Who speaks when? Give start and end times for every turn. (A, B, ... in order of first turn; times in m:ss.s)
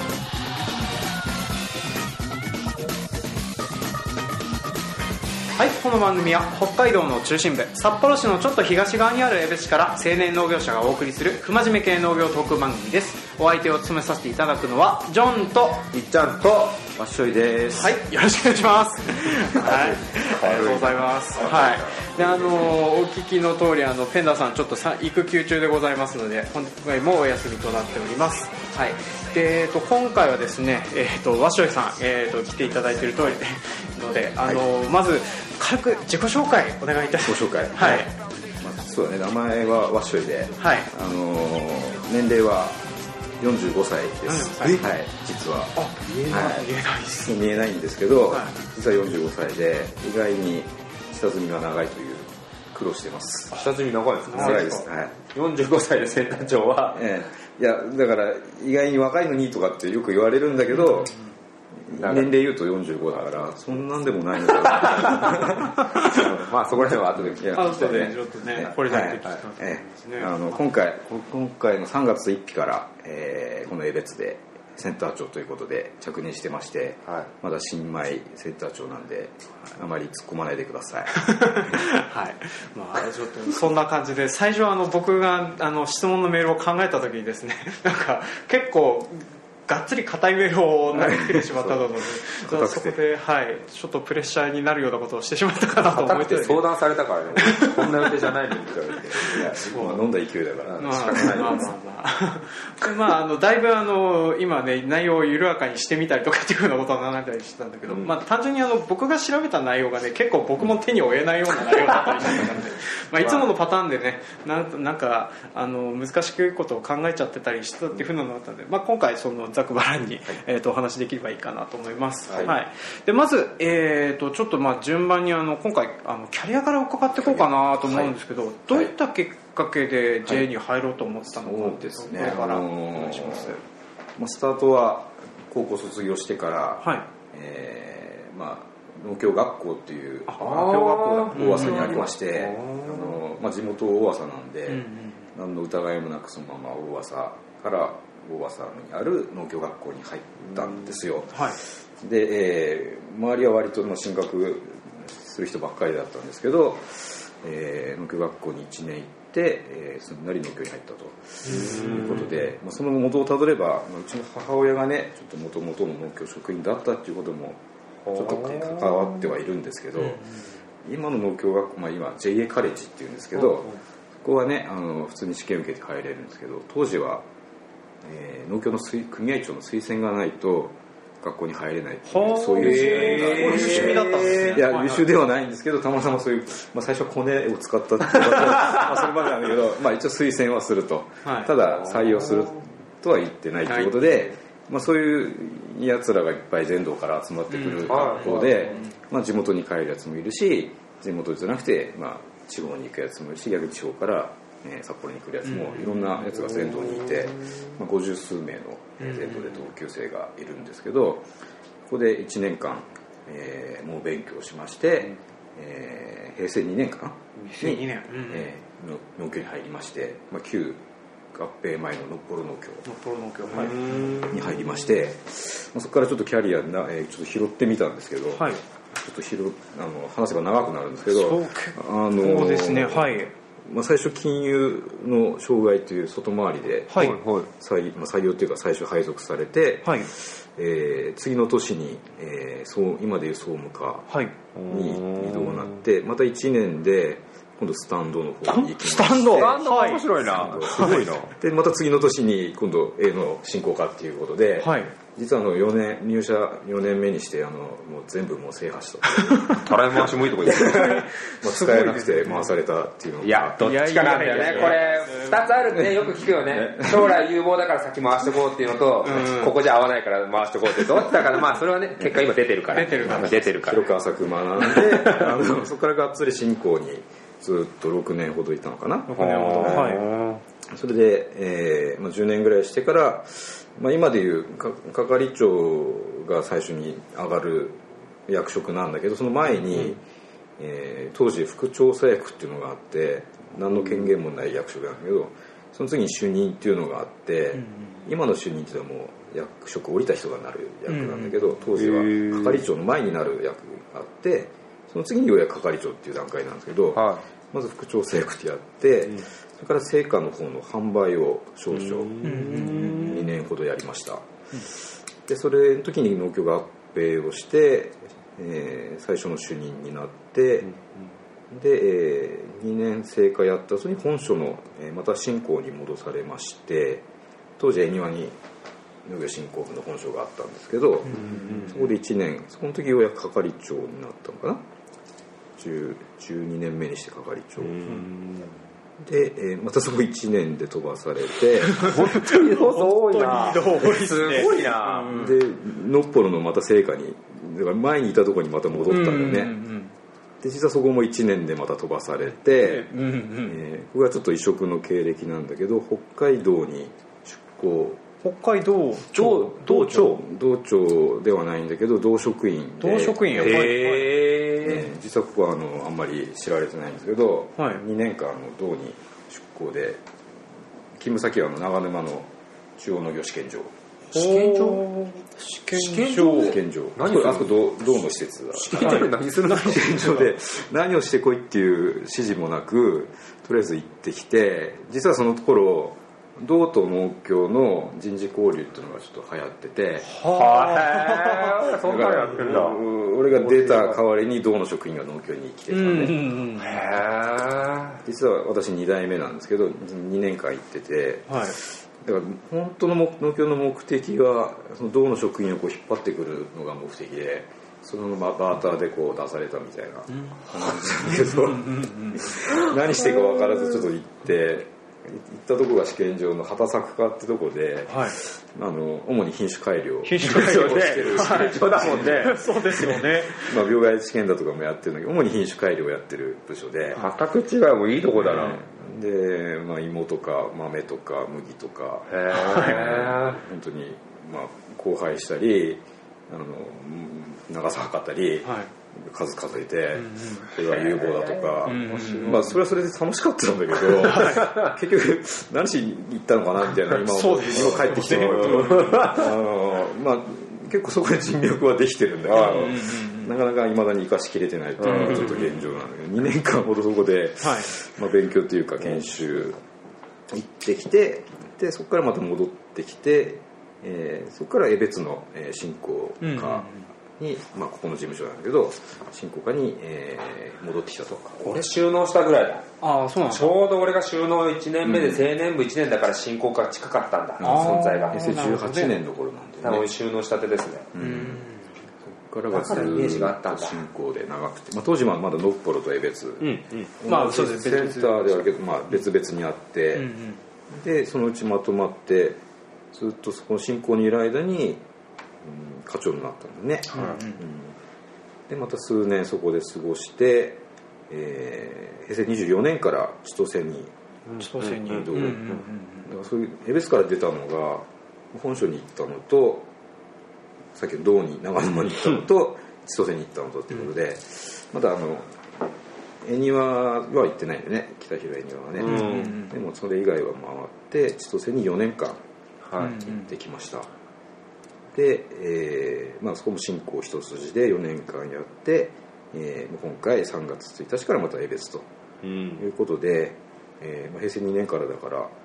0:05.6-0:15.8 A
0:15.9-0:16.9 B
0:16.9-0:18.0 C
0:17.7-0:38.1 A
0:19.5-0:19.9 C
0:19.7-0:22.7 B
0:37.2-0:38.1 C
0:38.6-0:42.9 C
0:40.6-0:40.9 A
0:43.4-0:53.6 C
0:44.3-0:44.9 A
0:45.8-0:47.3 A
0:48.3-0:48.5 A
0:53.5-0:57.0 B
0:54.3-0:54.8 A
0:54.3-0:55.2 C
0:56.9-1:01.2 C
1:00.8-1:01.1 A
1:01.8-1:06.2 C
1:02.0-1:02.3 B
1:04.7-1:07.7 B
1:06.9-1:21.8 C
1:07.5-1:10.6 A
1:21.2-1:36.7 A
1:30.9-1:33.0 C
1:35.9-1:40.0 B
1:37.4-1:38.1 A
1:39.2-1:41.6 C
1:39.6-1:40.0 A
1:40.6-1:41.7 B
1:40.8-2:13.6 A
2:07.2-2:08.1 C
2:11.1-2:13.6 C
2:14.2-2:47.6 C
2:16.8-2:17.1 A
2:20.3-2:22.0 A
2:20.4-2:23.2 B
2:24.7-2:25.2 A
2:30.6-2:30.9 B
2:31.3-2:31.6 A
2:41.4-2:42.3 A
2:41.5-2:42.3 B
2:48.0-2:49.3 B
2:48.1-2:50.2 C
2:50.0-2:50.4 A
2:50.8-2:57.3 C
2:53.4-2:53.8 B
2:58.0-3:31.3 C
3:02.1-3:05.1 A
3:02.6-3:04.6 B
3:11.2-3:11.5 A
3:11.7-3:12.5 B
3:13.6-3:14.3 A
3:17.5-3:18.9 A
3:17.9-3:18.8 B
3:25.4-3:26.0 A
3:29.0-3:29.6 A
3:31.8-3:40.8 C
3:37.5-3:38.5 A
3:41.3-3:42.9 C
3:42.8-3:44.1 A
3:43.5-3:44.7 B
3:43.6-4:04.1 C
3:48.3-3:48.6 A
3:51.1-3:53.3 A
3:56.9-3:57.2 A
3:57.0-3:57.5 B
3:59.8-4:00.1 A
4:04.5-4:05.8 B
4:04.7-4:23.6 C
4:08.5-4:11.2 A
4:09.3-4:11.3 B
4:14.6-4:14.9 A
4:19.2-4:19.6 A
4:19.6-4:21.0 B
4:20.5-4:22.5 A
4:23.2-4:33.9 B
4:23.6-4:25.5 A
4:25.8-4:27.1 C
4:29.0-4:29.5 A
4:32.7-4:33.4 A
4:32.8-4:39.9 C
4:34.6-4:35.4 B
4:39.1-4:40.1 A
4:39.1-4:40.4 B
4:40.7-4:50.0 C
4:50.6-5:20.7 C
4:57.5-4:58.0 A
5:00.9-5:01.5 A
5:01.7-5:02.6 B
5:06.9-5:07.2 B
5:11.7-5:13.3 B
5:12.2-5:13.2 A
5:21.5-5:27.0 C
5:27.6-5:28.4 C
5:29.0-5:34.6 C
5:31.1-5:31.7 A
5:31.1-5:31.8 B
5:35.6-5:37.8 C
5:37.6-5:38.5 B
5:39.0-5:41.9 C
5:41.7-5:45.3 A
5:41.7-5:45.2 B
5:45.1-5:49.6 C
5:48.9-5:49.9 A
5:50.4-5:52.9 C
5:52.5-5:53.6 A
5:53.4-5:58.0 C
5:58.2-6:00.2 A
5:59.2-6:03.9 C
6:02.8-6:04.1 A
6:03.4-6:04.9 B
6:04.6-6:10.0 C
6:11.0-6:13.7 C
6:14.1-6:14.9 B
6:14.1-6:16.6 A
6:15.7-6:18.0 B
6:16.2-6:30.1 C
6:18.5-6:20.3 B
6:18.8-6:20.2 A
6:30.0-6:31.7 A
6:30.3-6:32.8 B
6:31.8-6:36.2 C
6:33.4-6:34.0 B
6:35.7-6:36.8 A
6:36.6-6:38.0 B
6:38.0-7:02.4 C
6:41.3-6:41.6 A
6:50.1-6:52.4 A
6:57.9-6:58.2 A
7:00.0-7:03.6 A
7:00.2-7:03.0 B
7:03.3-7:07.0 C
7:07.0-7:08.6 B
7:08.2-7:39.6 C
7:12.1-7:13.4 B
7:12.3-7:12.8 A
7:18.4-7:18.7 A
7:20.0-7:20.5 A
7:20.5-7:22.6 B
7:21.6-7:22.4 A
7:24.0-7:24.6 A
7:24.2-7:24.7 B
7:26.9-7:29.2 A
7:27.5-7:29.3 B
7:32.2-7:32.8 B
7:32.4-7:33.3 A
7:34.8-7:35.5 B
7:34.8-7:35.4 A
7:37.4-7:37.7 A
7:40.3-7:51.6 C
7:46.2-7:46.9 A
7:51.4-7:52.6 B
7:52.8-7:53.6 A
7:53.2-7:58.4 B
7:54.8-7:55.3 C
7:57.4-7:59.9 C
7:57.4-7:58.9 A
7:59.6-8:00.9 B
8:00.9-8:01.5 C
8:01.0-8:01.7 A
8:02.0-8:10.1 C
8:02.5-8:03.8 B
8:06.4-8:06.9 B
8:07.0-8:08.5 A
8:09.9-8:10.4 A
8:10.7-8:12.4 C
8:12.9-8:14.8 C
8:15.4-8:17.8 C
8:16.9-8:17.4 A
8:18.5-8:23.9 C
8:24.3-8:25.6 B
8:24.4-8:26.1 A
8:24.8-8:29.7 C
8:30.7-8:35.7 C
8:36.2-8:42.2 C
8:38.8-8:39.4 B
8:38.8-8:39.5 A
8:42.6-8:43.0 B
8:42.8-8:43.3 A
8:42.8-8:43.9 C
8:44.9-8:51.9 C
8:52.2-8:52.6 B
8:52.6-8:55.3 C